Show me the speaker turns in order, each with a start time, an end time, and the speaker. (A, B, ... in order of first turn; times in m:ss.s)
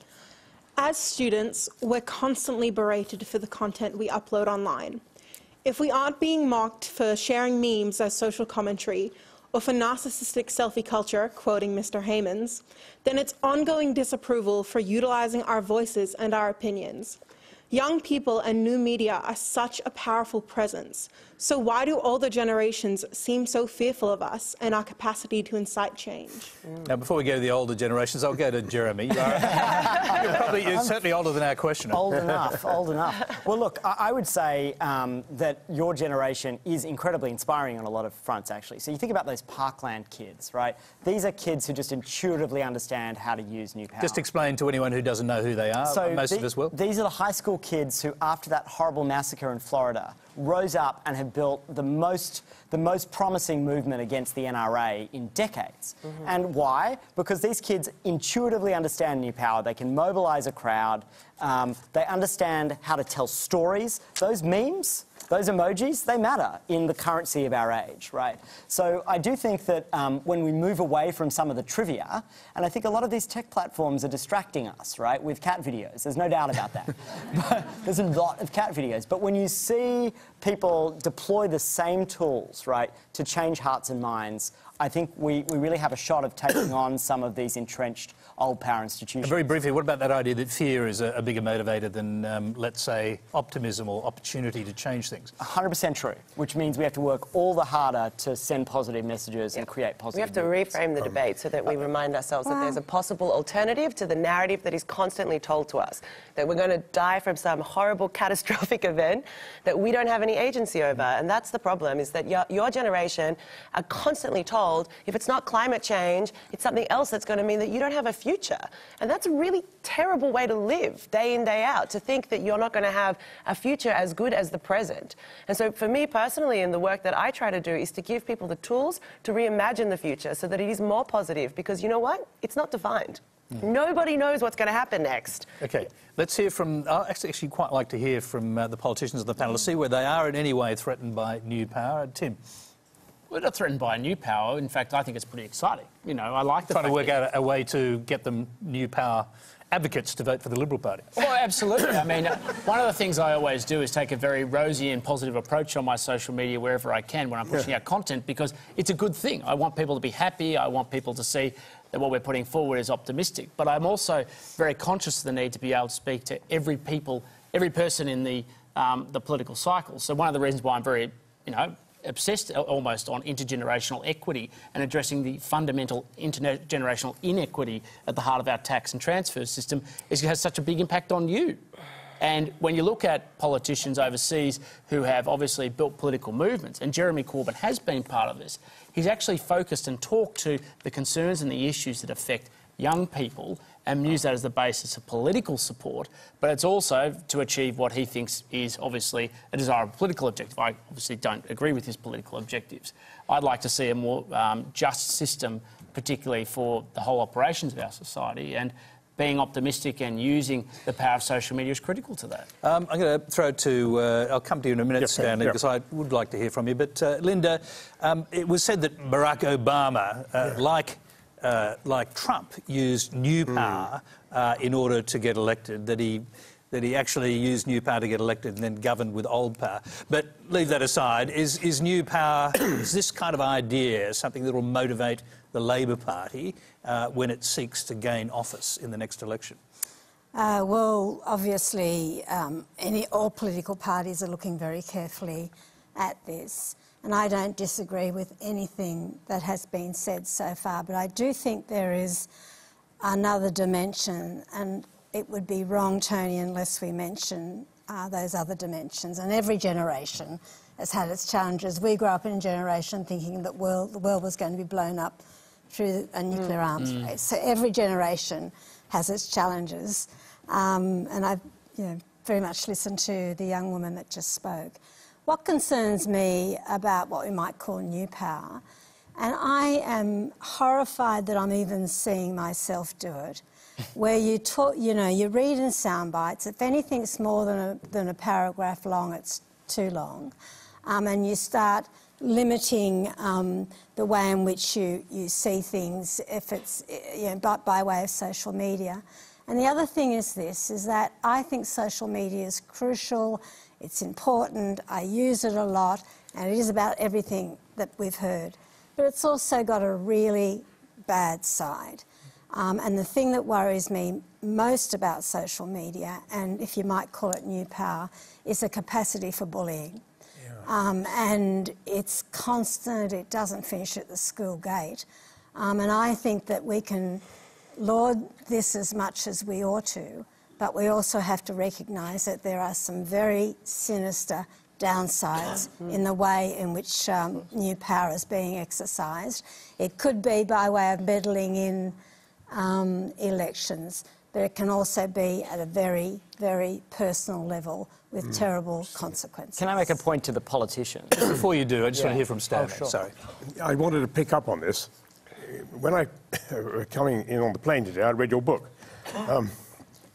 0:00.8-0:05.0 A
0:05.6-0:17.2 A
0:17.7-0:26.5 A
0:26.8-0:32.6 B
0:29.6-0:30.9 C
0:31.9-0:44.2 C
0:44.0-0:46.7 B
0:45.8-1:29.4 C
1:29.2-1:35.3 B
1:35.4-1:40.8 C
1:40.1-2:15.5 D
2:15.6-2:22.4 B
2:23.3-2:27.2 E
2:26.7-2:31.1 B
2:31.2-3:01.6 E
3:02.2-3:32.5 E
3:32.6-3:59.6 B
3:35.0-3:35.6 F
3:43.5-3:43.8 F
4:00.3-4:12.3 G
4:13.0-4:38.6 G
4:26.8-4:27.0 E
4:39.2-4:43.4 G
4:43.9-4:50.3 G
4:50.8-5:20.0 G
5:20.6-5:27.2 G
5:27.8-5:42.0 G
5:42.5-5:50.0 G
5:49.6-5:51.3 C
5:51.2-5:53.1 B
5:51.9-5:53.0 C
5:53.4-5:54.9 F
5:55.4-5:59.5 F